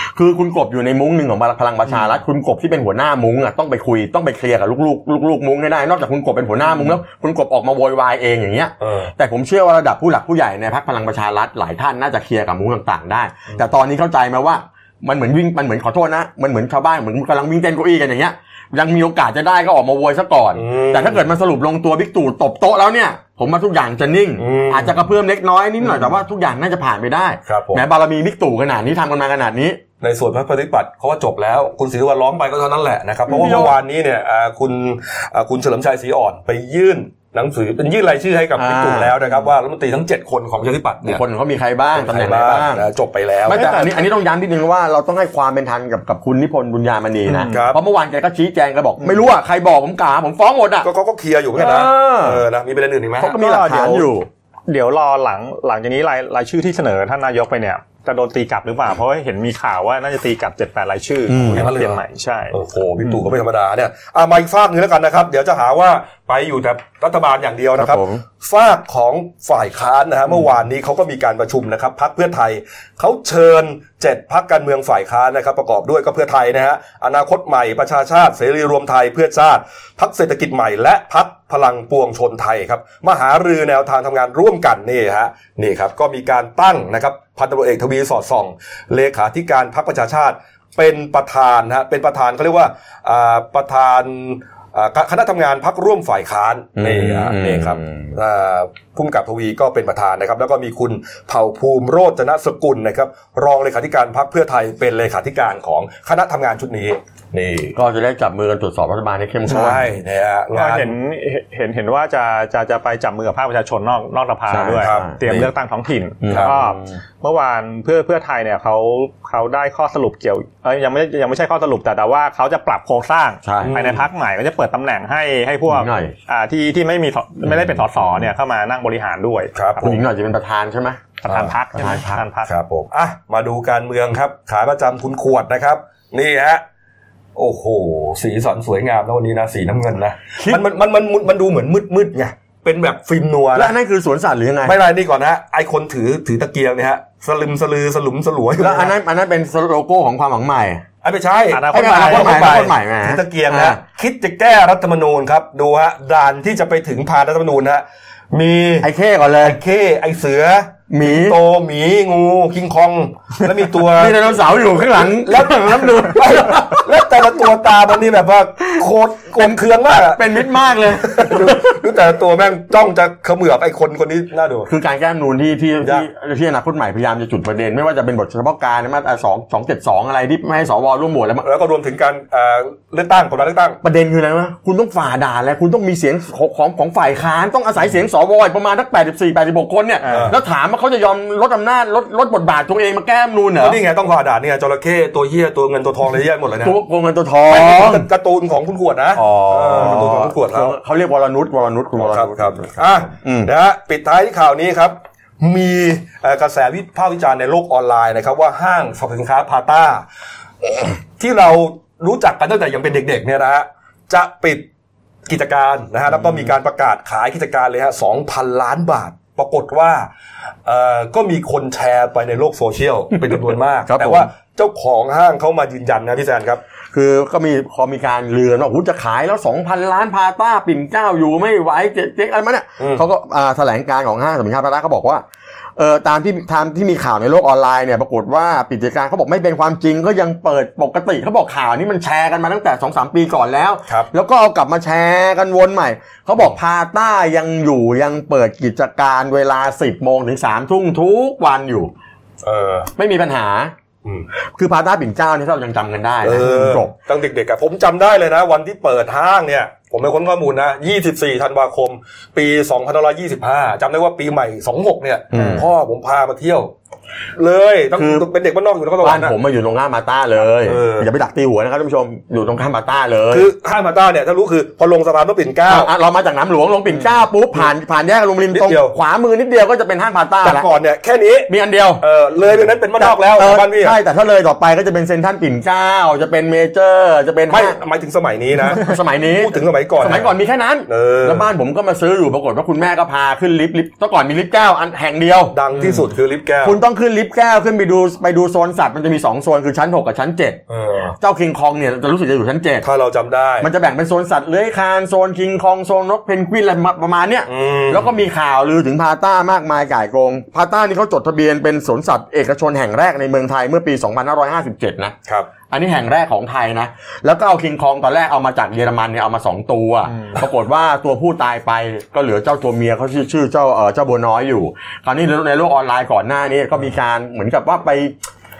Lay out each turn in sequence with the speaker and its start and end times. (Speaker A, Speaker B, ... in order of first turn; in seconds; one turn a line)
Speaker A: 0.1-29.8
Speaker B: 8.8-9.1
Speaker B: 20.5-21.2
Speaker B: 24.4-25.0
Speaker B: 27.5-27.8
Speaker B: 30.0-41.2
Speaker A: 33.3-33.8
Speaker A: 38.6-39.1
Speaker A: 41.0-42.9
Speaker B: 41.9-43.7
Speaker A: 43.5-50.9
Speaker C: 43.5-44.0
Speaker C: 47.3-47.6
Speaker B: 47.5-47.8
Speaker B: 50.8-53.3
Speaker A: 51.5-52.4
Speaker A: 53.2-54.3
Speaker C: 53.3-54.1
Speaker C: 54.7-63.2
Speaker A: 61.3-61.6
Speaker B: 61.5-107.8
Speaker A: 67.8-68.2
Speaker A: 96.8-98.1
Speaker A: 107.7-109.9
Speaker B: 109.5-110.9
Speaker C: 110.5-129.9
Speaker A: 114.5-115.5
Speaker A: 116.2-117.0
Speaker A: 123.4-123.8
Speaker B: 123.6-124.0
Speaker A: 125.7-126.1
Speaker A: 127.5-128.3
Speaker B: 129.5-130.0
Speaker A: 129.8-132.2
Speaker C: 131.2-132.5
Speaker B: 132.4-136.6
Speaker B: 137.3-143.7
Speaker A: 143.5-144.8
Speaker B: 144.6-148.9
Speaker A: 148.6-150.8
Speaker B: 151.0-158.9
Speaker C: 151.5-152.6
Speaker A: 151.7-153.8
Speaker A: 158.8-159.6
Speaker B: 159.4-164.2
Speaker A: 160.9-161.4
Speaker A: 163.8-166.9
Speaker B: 165.1-174.7
Speaker A: 169.4-171.8
Speaker A: 174.7-181.4
Speaker B: 175.8-176.1
Speaker B: 181.4-183.8
Speaker A: 183.8-193.8
Speaker B: 190.1-190.3
Speaker B: 193.6-196.8
Speaker A: 196.6-198.1
Speaker B: 197.5-200.8
Speaker A: 199.1-203.5
Speaker B: 202.0-210.1
Speaker B: 211.2-214.7
Speaker B: 215.3-220.1
Speaker B: 220.7-226.6
Speaker A: 223.9-224.3
Speaker A: 226.9-235.2
Speaker B: 232.8-233.0
Speaker A: 235.8-251.9
Speaker B: 252.4-252.9
Speaker A: 252.9-253.7
Speaker A: 254.6-256.9
Speaker B: 256.2-266.7
Speaker A: 265.3-265.6
Speaker B: 267.4-269.3
Speaker A: 268.0-268.3
Speaker A: 269.0-273.5
Speaker B: 270.6-271.1
Speaker B: 273.3-275.9
Speaker A: 275.6-280.7
Speaker B: 278.5-278.9
Speaker B: 280.4-284.0
Speaker A: 281.5-282.0
Speaker A: 283.0-287.8
Speaker B: 287.5-290.3
Speaker A: 288.6-296.0
Speaker B: 290.9-291.5
Speaker B: 295.5-296.8
Speaker A: 296.6-300.6
Speaker B: 300.7-301.1
Speaker A: 301.2-302.8
Speaker B: 302.8-303.7
Speaker A: 303.6-315.1
Speaker B: 307.5-308.1
Speaker A: 315.7-328.1